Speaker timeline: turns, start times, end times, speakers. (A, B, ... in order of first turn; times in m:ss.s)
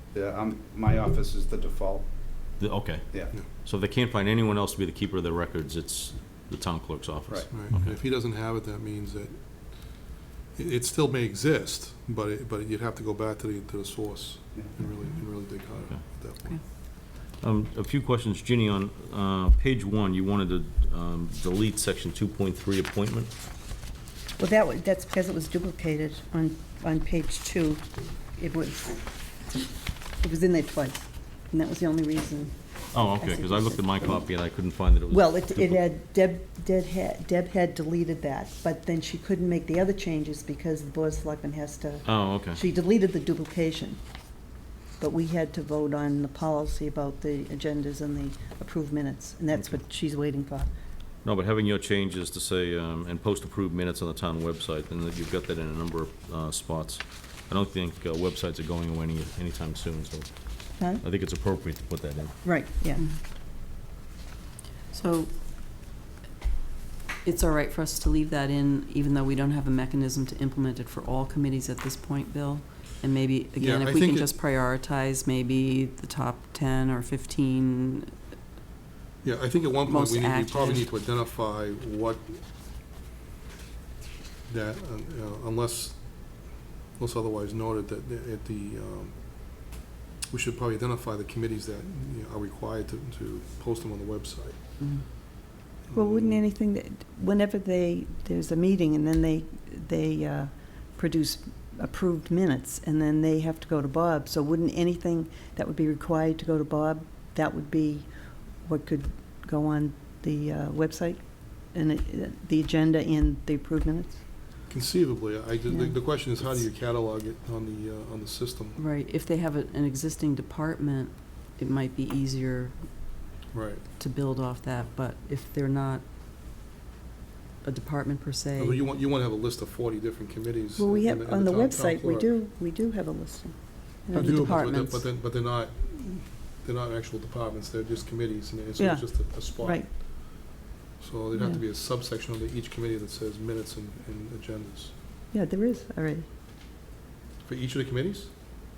0:00.1-0:02.3 A
0:02.6-0:08.0 B
0:07.5-0:16.6 C
0:15.8-0:16.2 B
0:16.9-0:23.3 B
0:24.4-0:29.6 D
0:30.2-0:33.9 D
0:32.9-0:35.8 B
0:35.1-0:44.0 D
0:42.0-0:42.6 B
0:45.0-0:50.7 D
0:49.5-0:49.8 B
0:51.2-1:02.3 B
1:00.8-1:01.0 D
1:02.4-1:03.0 D
1:04.9-1:05.4 E
1:07.2-1:18.2 E
1:13.6-1:14.3 C
1:19.2-1:22.4 C
1:19.8-1:20.9 E
1:24.5-1:29.8 C
1:30.3-1:34.8 C
1:34.8-1:35.1 E
1:35.9-1:36.4 C
1:35.9-1:54.2 D
1:54.7-1:58.8 C
1:58.8-2:03.4 E
2:03.5-2:03.8 C
2:04.0-2:06.0 E
2:07.6-2:08.8 E
2:08.6-2:12.3 C
2:10.8-2:14.8 D
2:14.1-2:15.0 E
2:14.1-2:20.1 C
2:18.8-2:19.9 D
2:21.0-2:24.9 C
2:25.3-2:26.3 D
2:27.4-2:28.3 C